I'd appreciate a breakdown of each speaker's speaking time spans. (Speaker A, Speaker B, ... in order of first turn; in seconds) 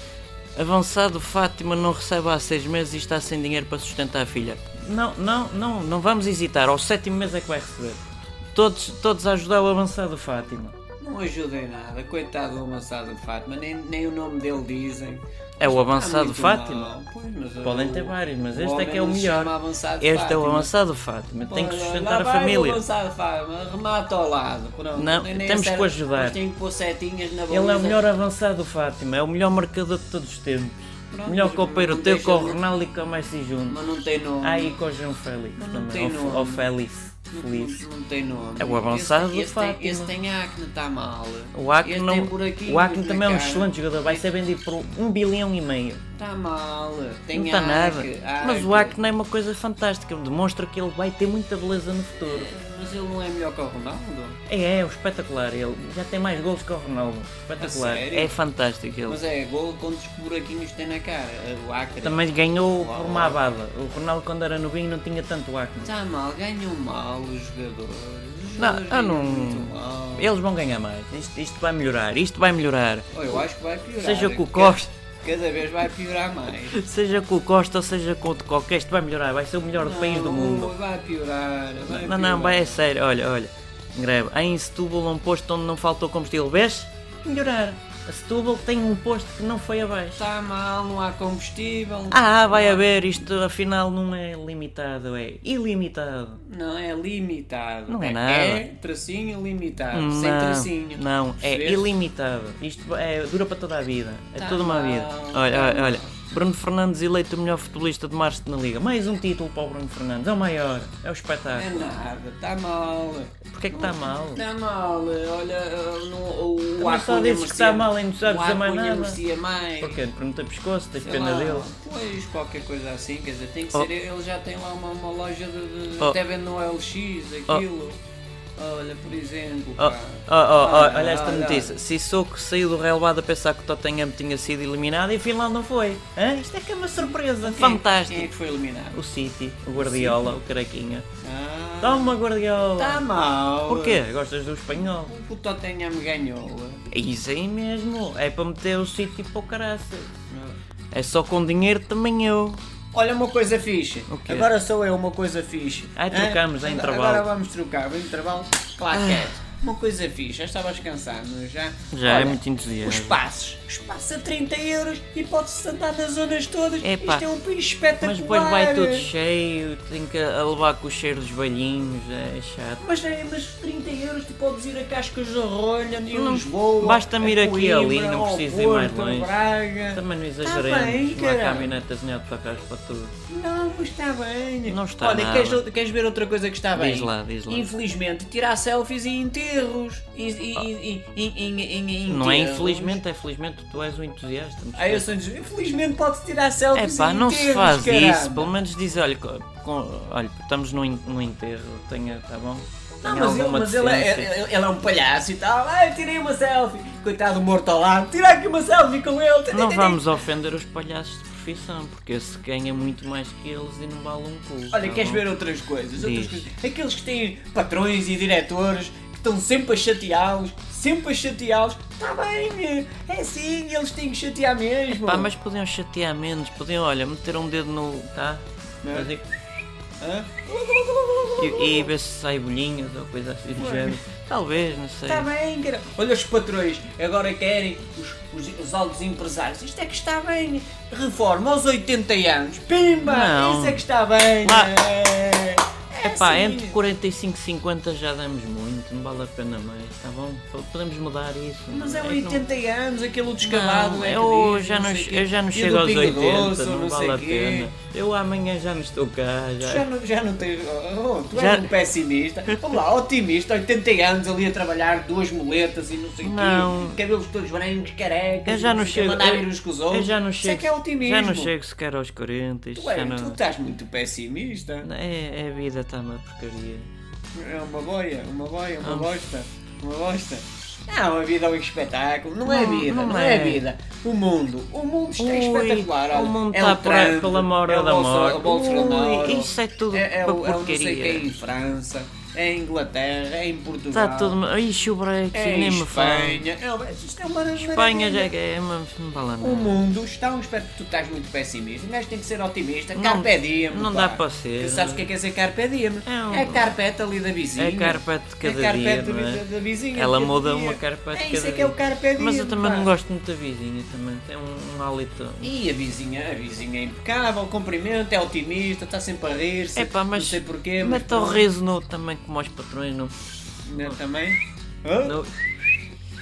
Speaker A: 0.6-10.8, 15.6-16.9, 17.6-22.8, 24.9-26.4, 27.5-33.8, 34.4-37.8, 38.6-40.1, 41.5-46.0, 47.3-52.5, 54.5-59.2, 62.0-65.9, 68.6-73.4, 74.0-74.9, 76.7-80.7, 81.8-90.2, 92.1-96.4, 97.9-98.7, 99.9-111.9, 113.5-114.4, 116.8-119.2, 119.8-121.7, 129.8-138.3, 138.9-141.1, 141.8-143.1, 143.7-145.1, 146.9-150.1, 150.9-152.6, 154.1-154.5, 155.9-157.3, 158.9-159.3, 161.9-163.2, 166.8-167.3, 168.0-172.8, 176.1-179.3, 179.9-183.1, 184.6-185.6, 186.7-187.7, 192.1-195.1, 196.7-204.3, 209.5-215.2, 216.0-216.5, 224.9-229.2, 231.4-235.3, 243.0-243.8, 244.4-244.8, 246.0-252.4, 253.4-259.9, 261.3-261.8, 262.5-262.8, 266.2-267.0, 268.4-273.4, 274.8-276.9, 278.8-279.1, 282.4-283.6, 285.2-291.2, 293.9-296.5, 297.5-299.8, 302.9-305.1, 306.0-306.7, 307.6-309.4, 309.9-315.5, 319.8-323.1, 325.0-325.4
Speaker B: 11.0-20.7, 21.5-28.2, 31.1-32.6, 33.7-34.8, 35.6-36.7, 37.3-44.2, 46.1-49.0, 52.2-54.4, 57.6-58.3, 59.1-63.4, 65.8-70.3, 73.1-76.8, 79.8-82.8, 90.1-92.9, 96.4-101.8, 104.4-106.1, 111.5-120.0, 121.0-128.0, 128.6-131.8, 137.4-139.0, 139.7-140.4, 141.2-142.2, 142.8-144.0, 144.7-146.8, 150.3-150.6, 152.9-169.1, 172.8-181.8, 183.3-193.0, 194.8-198.5, 203.0-210.2, 214.7-225.3, 228.8-229.1, 230.0-231.9, 233.6-234.0, 235.1-246.8, 251.7-257.7, 259.6-271.5, 272.7-274.9, 277.3-294.4, 295.3-298.3, 299.4-312.9, 315.4-321.5, 323.6-325.2